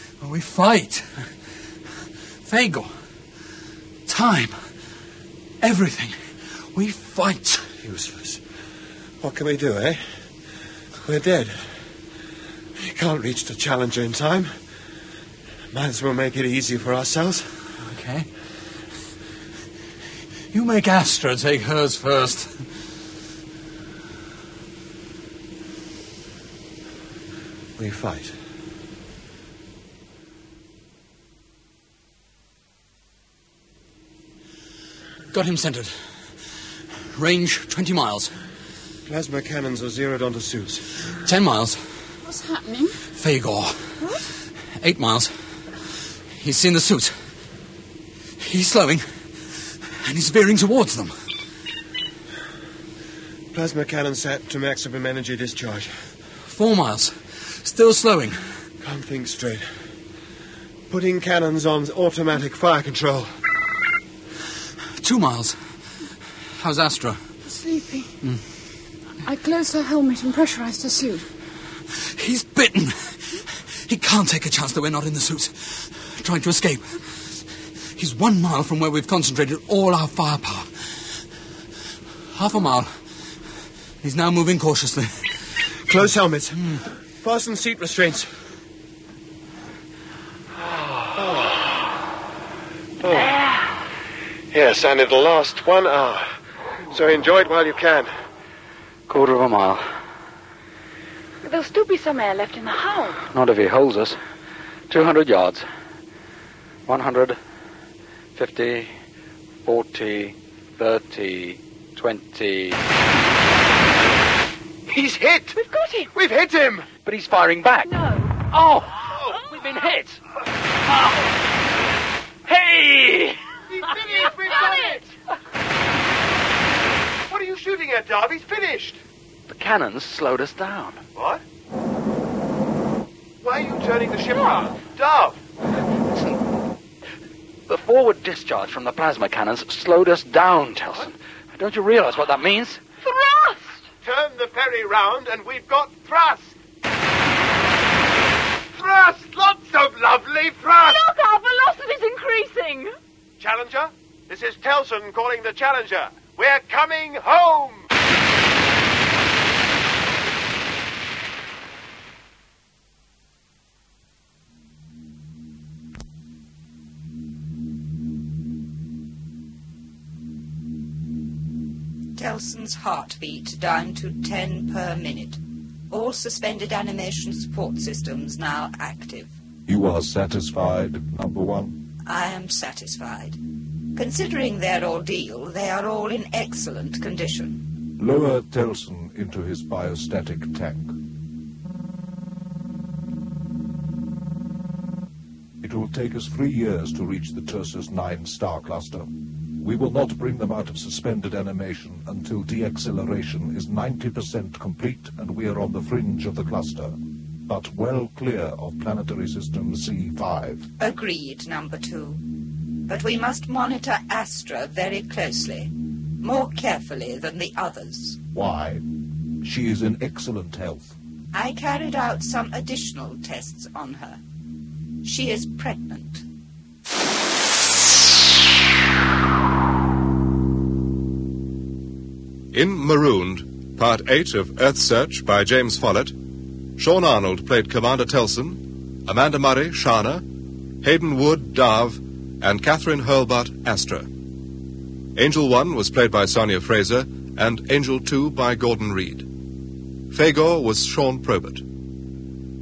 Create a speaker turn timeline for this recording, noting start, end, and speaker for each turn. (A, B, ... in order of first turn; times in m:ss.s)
0:00.2-0:01.3 A
0:02.4-0:03.0 A
0:04.1-0:04.7 A
0:05.6-0:07.7 A
0:07.8-0:08.4 B
0:09.2-0:10.2 B
0:11.0-0:11.8 B
0:12.8-0:14.6 B
0:15.7-0:17.6 B
0:17.8-0:18.4 A
0:20.5-0:22.7 A
0:27.8-0:28.4 B
0:35.3-0:36.4 A
0:37.2-0:38.4 A
0:39.1-0:41.0 B
0:41.2-0:42.0 A
0:42.2-0:43.0 C
0:43.2-0:44.1 A
0:44.8-0:45.3 A
0:46.3-0:47.2 A
0:48.4-0:51.1 A
0:53.5-0:56.0 B
0:56.4-0:58.6 A
0:58.8-0:59.8 B
1:00.9-1:03.3 B
1:05.0-1:05.8 A
1:06.6-1:07.2 A
1:07.5-1:08.2 C
1:08.2-1:08.5 A
1:09.2-1:11.3 C
1:12.1-1:21.2 A
1:22.3-1:23.0 A
1:24.0-1:26.8 A
1:25.9-1:28.3 B
1:30.7-1:31.8 B
1:33.0-1:33.4 B
1:34.5-1:36.4 B
1:36.9-1:38.1 B
1:39.1-1:39.8 A
1:41.4-1:43.2 C
1:43.3-1:44.2 A
1:44.9-1:45.7 A
1:46.9-1:47.4 A
1:48.4-1:48.9 A
1:49.6-1:52.8 A
1:54.9-1:55.6 B
1:55.6-1:56.1 C
1:56.1-1:56.9 B
1:57.0-1:57.9 A
1:57.8-1:58.4 C
1:58.4-2:00.2 A
1:59.0-1:59.4 B
2:02.5-2:03.4 A
2:03.7-2:05.1 B
2:04.4-2:05.0 C
2:07.3-2:09.0 B
2:09.5-2:11.0 A
2:11.2-2:11.4 B
2:13.4-2:15.4 B
2:16.0-2:16.4 A
2:17.7-2:22.8 A
2:23.0-2:23.6 C
2:24.0-2:26.6 B
2:28.8-2:31.0 B
2:30.8-2:33.0 C
2:33.4-2:37.9 B
2:52.2-2:59.3 D
2:59.7-3:01.8 E
3:02.1-3:03.4 D
3:04.0-3:07.6 D
3:08.0-3:11.0 E
3:15.6-3:30.7 E
3:30.8-3:32.2 D
3:32.9-3:38.2 D
3:38.3-3:38.8 E
3:39.4-3:41.0 E
3:41.3-3:44.2 D
3:45.0-3:46.2 D
3:52.5-3:56.2 F
3:56.8-4:00.2 F
4:00.8-4:04.1 F
4:05.2-4:09.3 F
4:10.1-4:11.6 F